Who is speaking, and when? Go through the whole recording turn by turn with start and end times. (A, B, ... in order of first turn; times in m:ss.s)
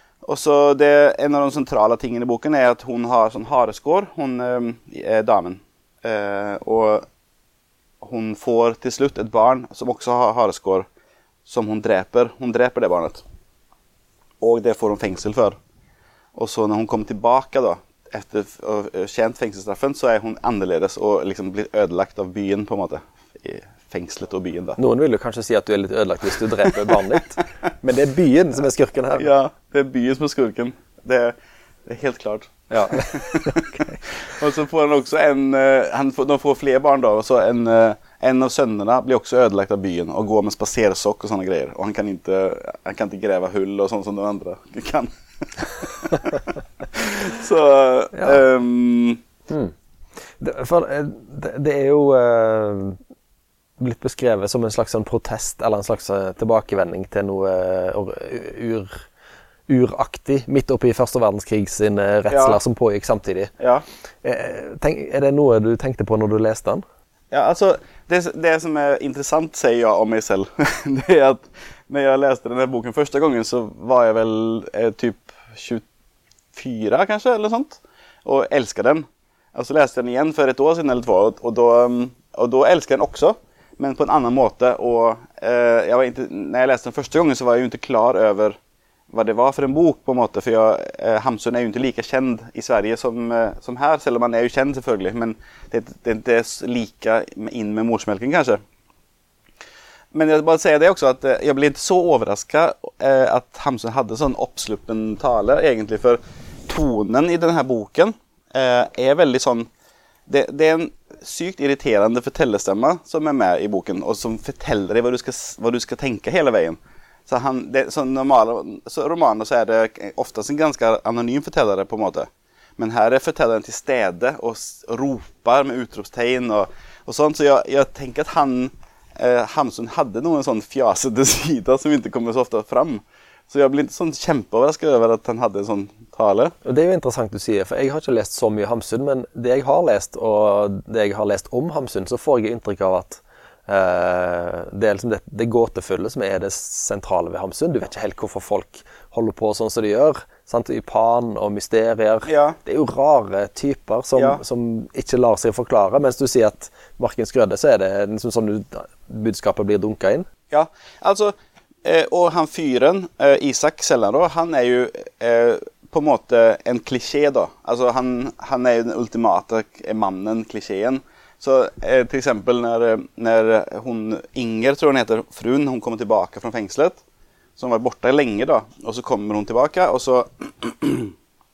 0:00.2-0:07.0 A
0:08.0-0:10.8 A
0:11.4-0:13.2 A
0:14.4-0:15.6 A
0:16.3-0:24.8 A
0:24.8-0:29.3 B
0:29.2-0:31.3 A
0:31.8-0:49.2 A
0:32.7-0:33.9 B
0:50.4-0:53.0 B
0:53.8-0:59.0 B
0:59.7-1:03.5 B
1:02.3-1:02.6 A
1:03.6-1:03.8 A
1:04.2-1:06.8 B
1:07.3-1:15.8 A
1:16.5-1:28.6 A
1:29.1-1:38.6 A
1:40.1-1:49.7 A
1:50.3-2:16.5 A
2:16.6-2:40.3 B
2:32.2-2:32.6 A
2:34.1-2:34.4 A
2:40.5-2:41.3 A
2:41.8-2:57.0 A
2:57.6-3:01.1 A